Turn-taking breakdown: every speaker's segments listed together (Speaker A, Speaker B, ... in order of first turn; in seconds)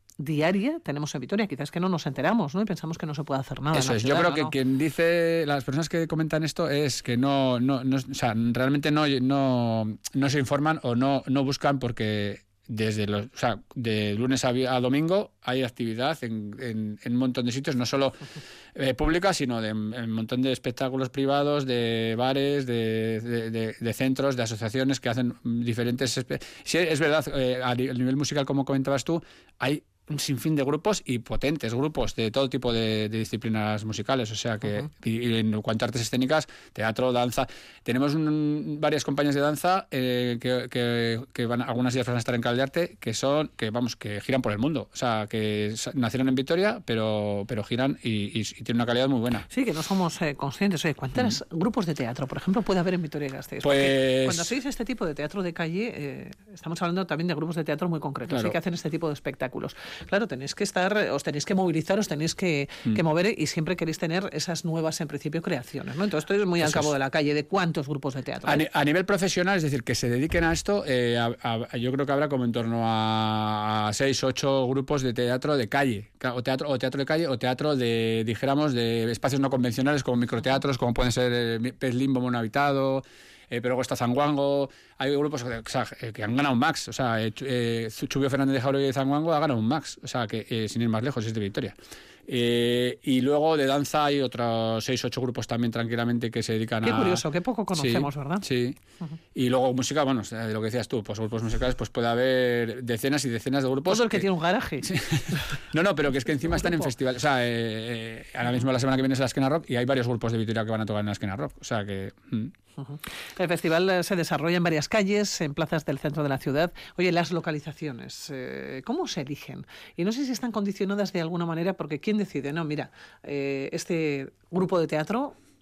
Speaker A: 0.2-4.5, 49.5-68.6, 96.8-98.5, 103.9-105.4, 106.5-106.9, 112.8-125.3
Speaker B: 3.7-49.5, 53.6-54.5, 58.3-58.5, 66.6-66.9, 68.5-91.7, 92.3-97.2, 97.7-98.8, 99.3-104.3, 104.8-112.5